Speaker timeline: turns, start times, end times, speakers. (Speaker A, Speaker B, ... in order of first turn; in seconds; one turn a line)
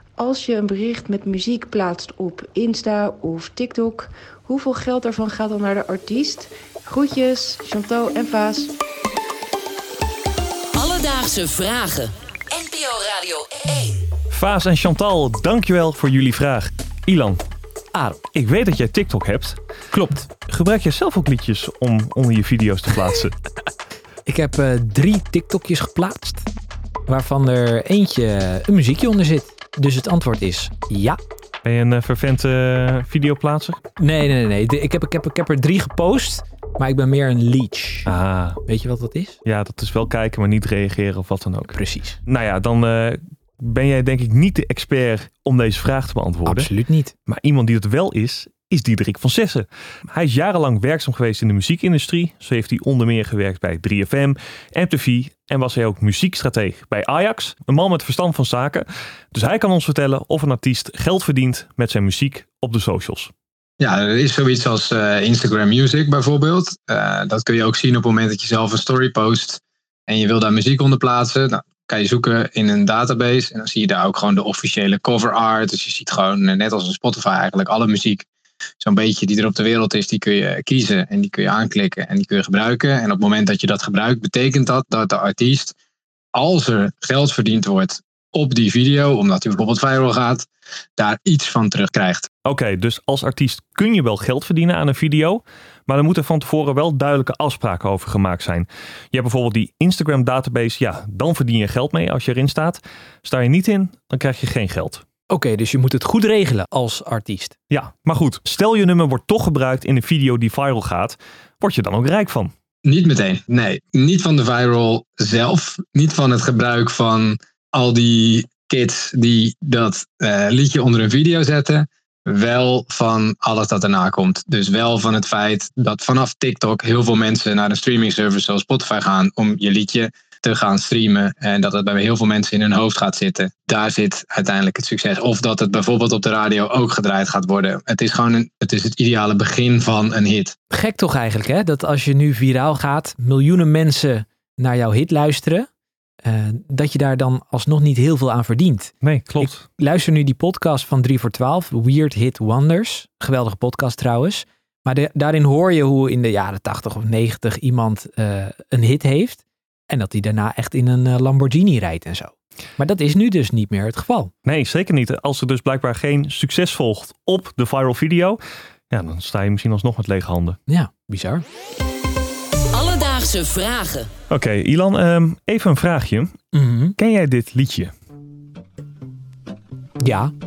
Speaker A: 0.2-8.7
Speaker B: 10.7-14.1
Speaker C: 14.3-17.4
Speaker D: 17.9-18.2
Speaker C: 18.3-19.6
Speaker D: 19.9-20.3
Speaker C: 20.5-23.4
Speaker D: 24.3-26.5
Speaker D: 27.1-31.2
Speaker C: 31.6-33.8
Speaker D: 34.0-38.1
Speaker C: 38.1-38.6
Speaker D: 38.7-39.4
Speaker C: 39.5-46.7
Speaker D: 41.7-42.2
Speaker D: 46.5-47.1
Speaker C: 47.3-63.3
Speaker E: 63.8-78.3
Speaker E: 78.8-85.8
Speaker E: 86.3-92.3
Speaker C: 92.5-105.0
Speaker D: 105.3-107.5
Speaker C: 107.7-112.5
Speaker E: 112.8-140.6
Speaker D: 140.7-145.7
Speaker D: 146.2-164.3
Speaker C: 149.0-149.6
Speaker C: 164.4-168.4
Speaker C: 168.9-170.6
Speaker D: 170.7-171.4
Speaker B: 172.7-174.1
Speaker C: 174.3-176.3
Speaker D: 176.5-177.0
Speaker C: 177.0-177.9
Speaker D: 180.0-180.3